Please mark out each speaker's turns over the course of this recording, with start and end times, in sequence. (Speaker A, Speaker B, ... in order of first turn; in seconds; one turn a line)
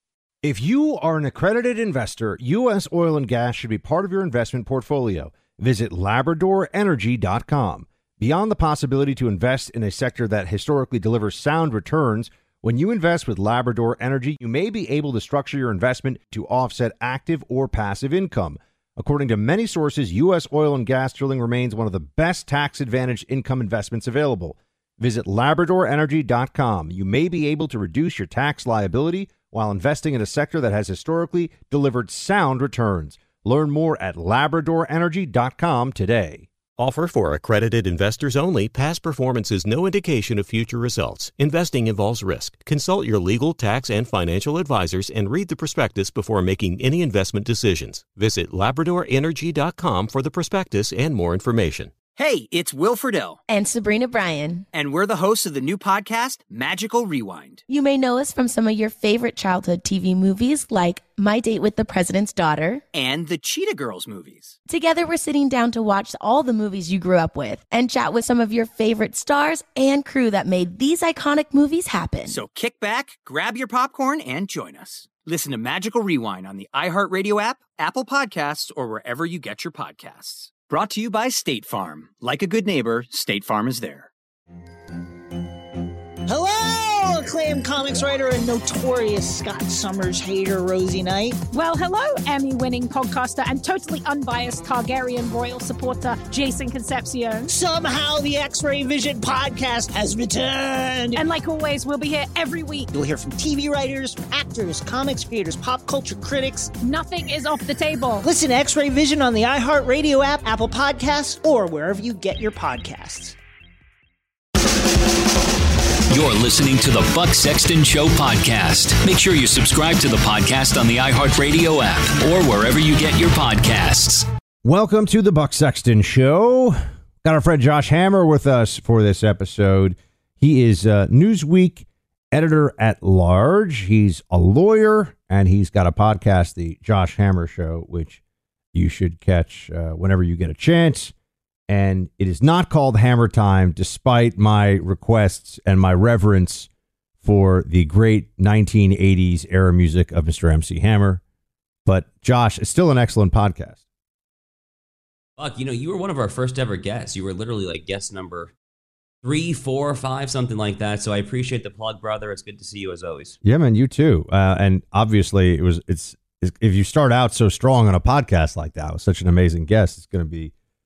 Speaker A: 0.4-36.5
Speaker B: 36.8-51.9
Speaker C: 52.1-53.4
Speaker D: 53.5-54.6
Speaker C: 54.7-57.6
Speaker D: 57.7-62.8
Speaker C: 62.9-64.6
Speaker D: 64.7-72.4
Speaker C: 72.2-84.1
Speaker E: 86.3-91.4
Speaker F: 91.5-97.5
Speaker E: 97.5-101.2
Speaker F: 101.1-102.9
Speaker E: 102.9-106.7
Speaker F: 106.8-108.2
Speaker E: 108.2-113.4
Speaker G: 116.1-124.2
Speaker A: 124.6-138.2
Speaker A: 138.7-141.1
Speaker A: 141.7-146.7
Speaker A: 147.2-151.2
Speaker A: 151.8-153.8
Speaker H: 155.4-158.5
Speaker H: 159.2-163.4
Speaker A: 163.4-170.5